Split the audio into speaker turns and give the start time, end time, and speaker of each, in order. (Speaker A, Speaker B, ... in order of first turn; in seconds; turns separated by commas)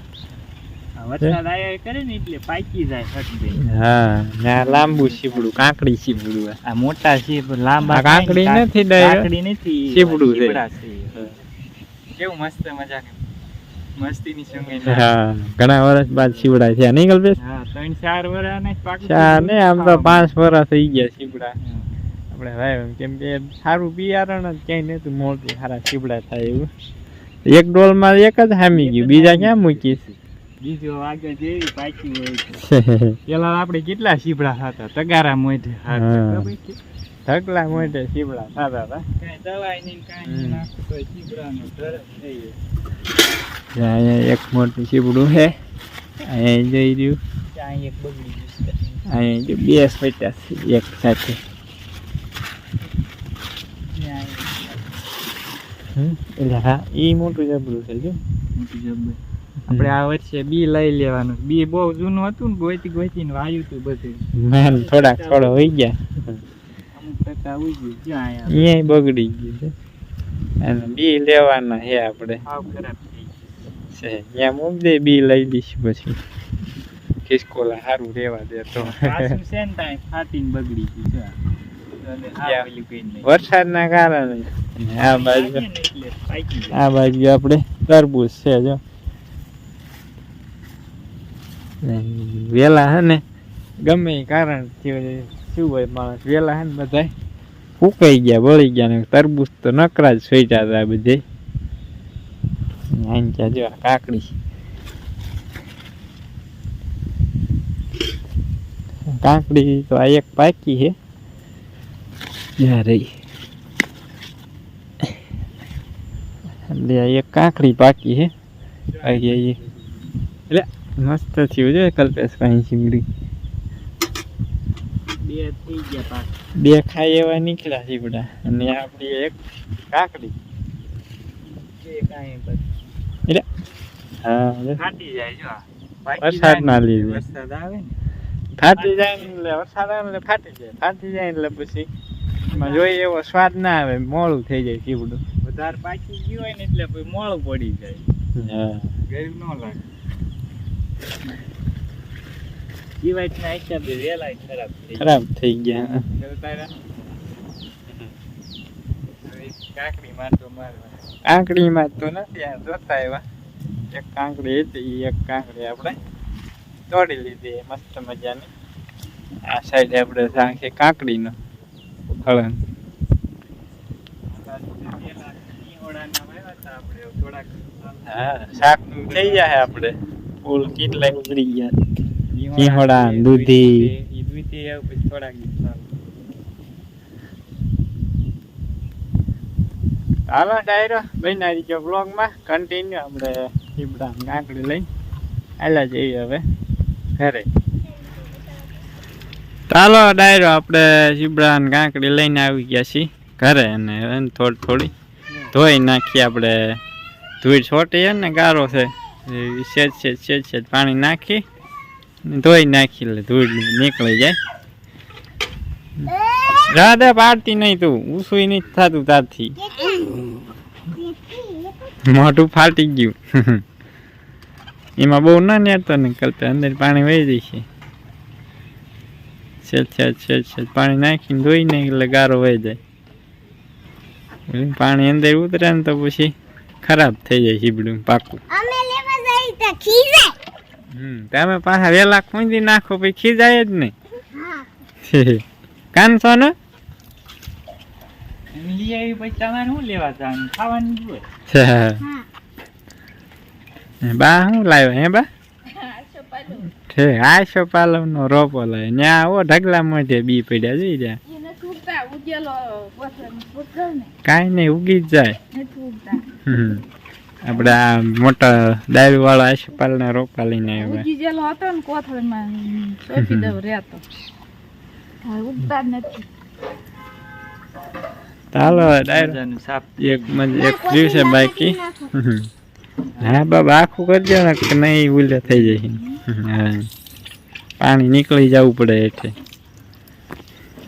Speaker A: 0.9-3.6, Speaker B: 3.6-6.6, Speaker A: 4.5-5.7, Speaker A: 6.6-11.3, Speaker B: 7.8-9.3, Speaker B: 9.9-10.6, Speaker A: 12.1-13.2, Speaker A: 14.0-15.1, Speaker B: 14.8-17.4, Speaker A: 16.2-16.5, Speaker A: 17.4-20.3, Speaker B: 19.0-21.5, Speaker A: 21.6-21.9, Speaker B: 22.3-26.7, Speaker B: 27.5-30.0, Speaker A: 28.7-32.6, Speaker B: 32.6-33.2, Speaker A: 33.3-36.8, Speaker B: 35.9-36.5, Speaker B: 37.2-39.0, Speaker A: 39.1-42.5, Speaker B: 40.2-40.6, Speaker B: 43.7-45.5, Speaker B: 46.2-47.2, Speaker A: 47.5-49.0, Speaker B: 49.1-51.4, Speaker A: 53.8-54.9, Speaker B: 56.0-58.2, Speaker A: 58.5-65.7, Speaker B: 59.7-59.9, Speaker B: 64.3-66.4, Speaker A: 66.9-68.7, Speaker B: 68.5-69.7, Speaker B: 70.6-72.4, Speaker A: 72.5-73.5, Speaker B: 73.9-76.2, Speaker B: 77.2-79.4, Speaker A: 78.8-81.3, Speaker A: 82.0-83.3, Speaker B: 82.4-82.7, Speaker B: 83.2-85.6, Speaker A: 85.0-86.8, Speaker B: 86.7-88.8, Speaker B: 91.8-93.2, Speaker B: 93.8-97.1, Speaker B: 97.8-101.2, Speaker B: 102.9-104.3, Speaker B: 109.2-110.9, Speaker B: 112.6-113.1, Speaker B: 116.7-118.3, Speaker A: 118.9-119.8, Speaker B: 119.0-119.6, Speaker B: 120.5-123.0, Speaker A: 125.2-126.3, Speaker B: 126.6-129.3, Speaker B: 129.9-130.3, Speaker A: 131.7-132.7, Speaker B: 134.2-134.8, Speaker A: 134.8-138.0, Speaker B: 136.2-137.2, Speaker B: 138.6-141.9, Speaker A: 138.7-139.3, Speaker A: 142.5-143.0, Speaker B: 142.5-145.2, Speaker A: 145.4-148.1, Speaker B: 148.3-148.9, Speaker A: 149.0-149.8, Speaker A: 153.0-155.1, Speaker B: 155.0-156.1, Speaker A: 156.1-156.7, Speaker A: 159.2-161.0, Speaker B: 161.2-163.2, Speaker B: 163.9-165.9, Speaker B: 166.9-168.5, Speaker B: 169.4-171.3, Speaker B: 172.1-172.6, Speaker A: 174.3-179.9, Speaker B: 178.1-181.8, Speaker A: 182.3-185.9, Speaker B: 182.6-183.9, Speaker B: 190.3-194.8, Speaker B: 195.6-196.4, Speaker B: 197.2-197.4, Speaker B: 199.7-204.9, Speaker B: 205.5-206.8, Speaker B: 207.4-211.4, Speaker B: 212.2-214.4, Speaker B: 216.0-219.6, Speaker C: 221.3-221.7, Speaker B: 222.1-223.6, Speaker B: 225.0-227.6, Speaker B: 229.6-232.8, Speaker B: 234.5-238.4, Speaker C: 238.5-240.4, Speaker B: 240.9-243.9, Speaker B: 245.0-246.5, Speaker A: 248.5-251.3, Speaker B: 251.5-252.0, Speaker B: 254.0-255.3, Speaker D: 255.7-256.7, Speaker B: 256.9-261.2, Speaker D: 261.2-264.1, Speaker B: 264.2-265.4, Speaker D: 265.5-266.3, Speaker B: 266.4-266.8, Speaker B: 267.4-271.1, Speaker D: 270.8-274.0, Speaker B: 273.2-273.6, Speaker D: 275.2-276.2, Speaker B: 278.5-279.4, Speaker A: 278.6-280.4, Speaker B: 280.0-282.5, Speaker A: 283.1-283.5, Speaker B: 283.2-286.8, Speaker A: 285.4-285.8, Speaker B: 287.8-289.3